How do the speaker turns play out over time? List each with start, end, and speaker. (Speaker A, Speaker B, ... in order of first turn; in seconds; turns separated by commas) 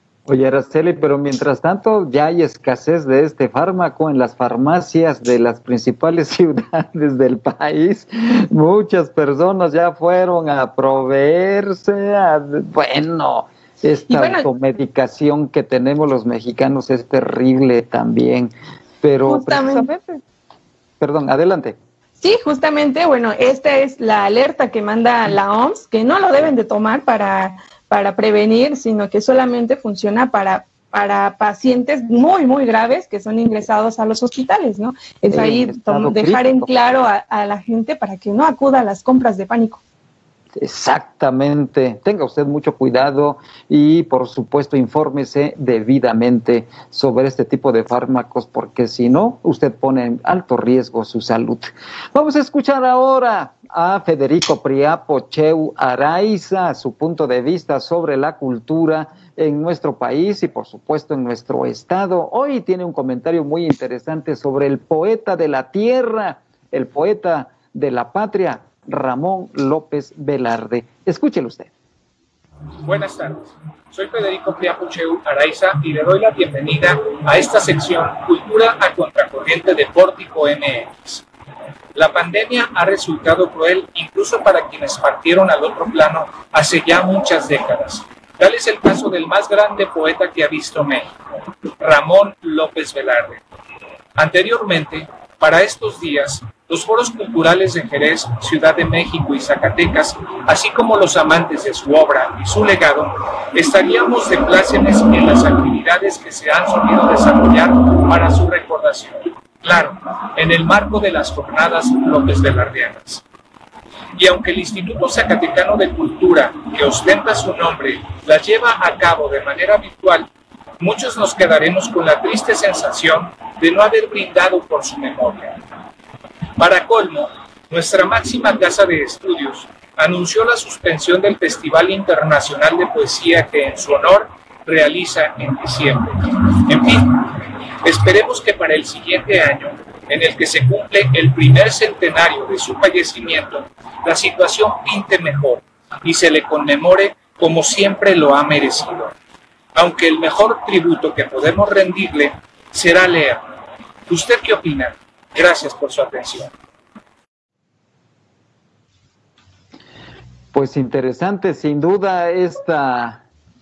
Speaker A: 0.3-19.9, Speaker B: 14.1-14.5, Speaker B: 19.3-20.2, Speaker A: 21.0-21.8, Speaker B: 22.2-39.8, Speaker A: 35.3-36.7, Speaker A: 40.6-71.7, Speaker C: 72.8-81.2, Speaker C: 82.0-91.1, Speaker C: 91.8-93.4, Speaker C: 94.2-113.2, Speaker C: 114.2-125.6, Speaker C: 126.6-137.3, Speaker C: 137.8-149.1, Speaker C: 149.8-153.4, Speaker C: 154.1-156.5, Speaker A: 160.5-163.2